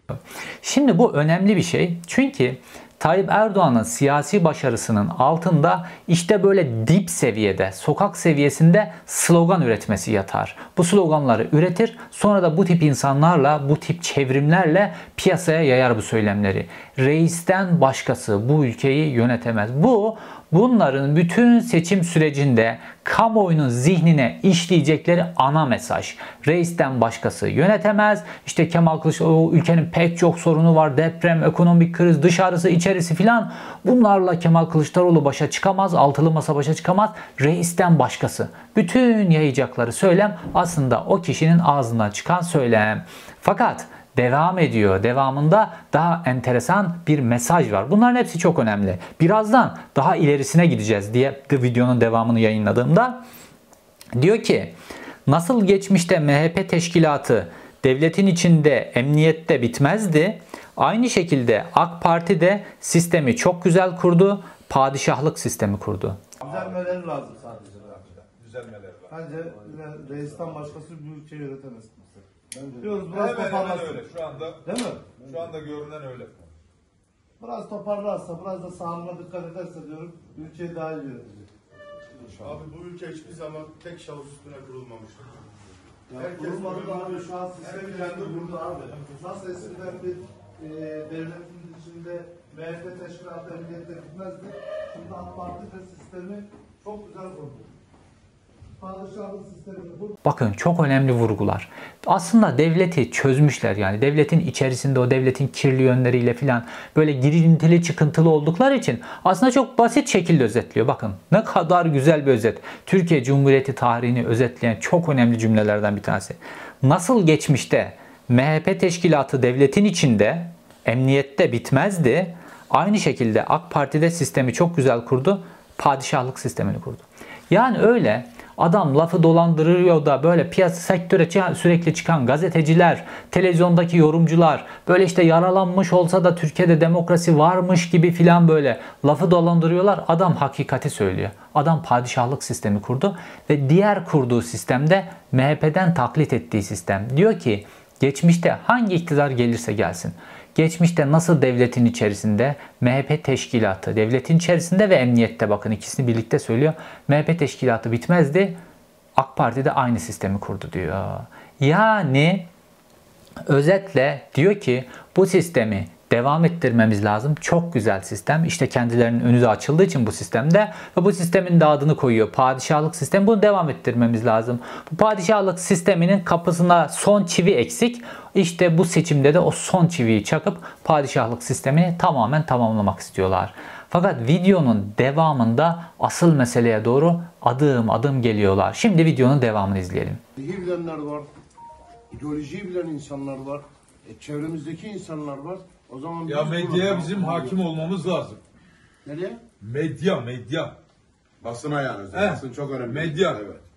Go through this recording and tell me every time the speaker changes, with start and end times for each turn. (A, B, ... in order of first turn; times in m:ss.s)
0:00.1-0:53.2 A
0:54.2-0:54.7 A
0:55.3-1:06.2 A
1:06.4-1:06.8 B
1:06.4-1:08.0 C
1:08.0-1:09.2 B
1:09.1-1:12.2 C
1:12.5-1:13.0 D
1:12.8-1:15.2 C
1:13.0-1:16.5 B
1:17.4-1:21.5 C
1:22.4-1:25.4 E
1:26.1-1:37.7 C
1:26.1-1:28.8 E
1:38.8-1:40.2 C
1:40.2-2:38.6 A
2:39.2-2:42.5 A
2:43.4-3:10.2 A
3:10.4-3:11.3 D
3:12.1-3:17.5 D
3:16.2-3:18.4 B
3:19.1-3:19.4 D
3:19.6-3:20.8 B
3:21.4-3:23.6 F
3:22.1-3:23.5 B